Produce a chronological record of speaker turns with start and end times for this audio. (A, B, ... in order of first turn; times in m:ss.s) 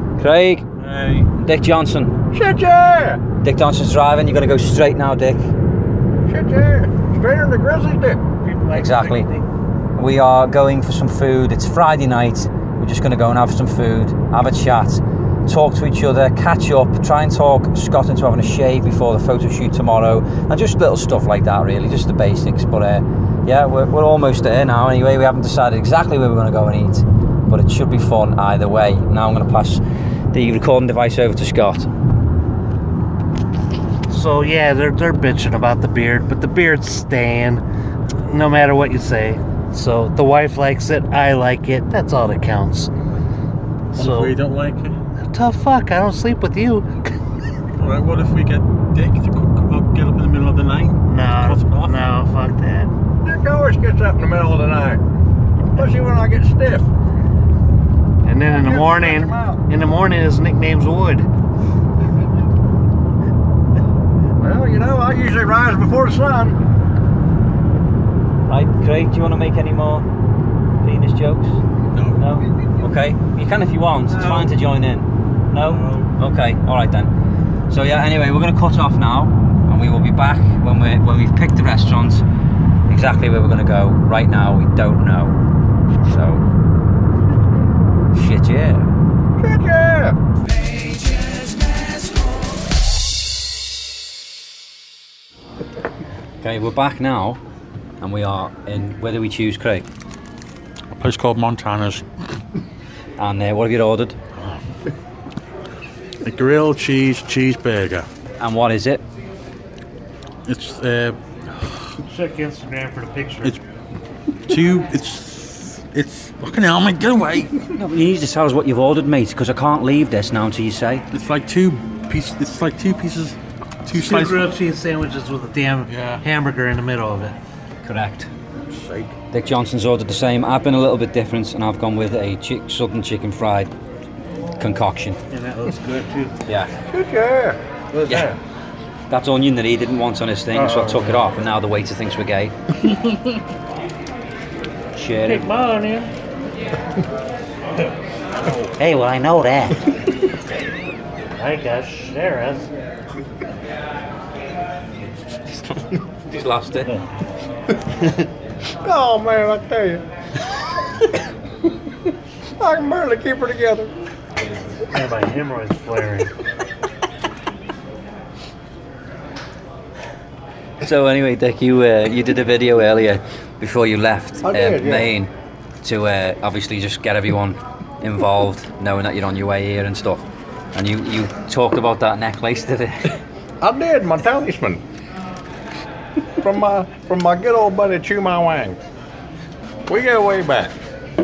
0:00.2-0:00.6 A
0:00.8-0:01.3 B
0:01.4-0:02.1 A
0:02.3-0:03.2 C
0:03.4-0:05.5 A
0:06.3-0:08.2 C
0:08.4-0:09.4 D
0:08.7-0:09.3 A
0:10.0-0:29.8 A
0:30.3-0:31.9 A
0:34.1-0:37.6 D
0:38.2-0:42.9 D
0:43.9-0:44.3 D
0:43.9-0:45.0 B
0:45.2-0:47.2 D
0:47.8-0:52.0 B
0:51.0-0:52.9 D
0:53.2-0:55.0 C
0:55.8-0:56.9 C
0:58.2-1:01.3 D
0:58.5-0:59.6 C
1:04.4-1:06.6 C
1:08.4-1:10.1 A
1:10.8-1:11.6 A
1:11.9-1:12.2 B
1:12.1-1:17.1 A
1:14.1-1:14.5 B
1:15.6-1:16.1 B
1:17.7-1:22.2 A
1:22.9-1:25.4 A
1:26.0-1:26.4 A
1:28.1-1:28.9 A
1:29.4-1:30.2 C
1:36.4-1:37.4 A
1:38.0-1:39.9 A
1:40.9-1:42.0 B
1:43.2-1:44.2 A
1:44.4-1:44.6 B
1:46.2-1:48.1 B
1:48.4-1:49.0 A
1:50.5-1:51.8 B
1:52.0-1:53.6 D
1:54.5-1:57.6 B
1:57.7-2:01.0 A
2:01.1-2:04.5 B
2:03.9-2:07.4 D
2:05.9-2:06.2 B
2:07.8-2:08.3 A
2:08.7-2:09.1 B
2:09.3-2:13.7 A
2:14.6-2:15.2 A
2:15.3-2:16.4 D
2:16.4-2:16.7 A
2:16.9-2:17.6 C
2:17.9-2:18.4 D
2:19.1-2:22.5 A
2:20.5-2:21.1 D
2:24.9-2:25.5 A
2:25.2-2:26.1 D
2:28.8-2:29.8 A
2:31.4-2:32.7 D
2:35.5-2:36.9 A
2:38.8-2:40.0 C
2:42.6-2:43.9 C
2:44.8-2:46.3 D
2:50.8-3:03.2 A
2:54.4-2:55.1 C
3:03.6-3:04.8 C
3:06.4-3:08.8 C
3:09.9-3:10.8 C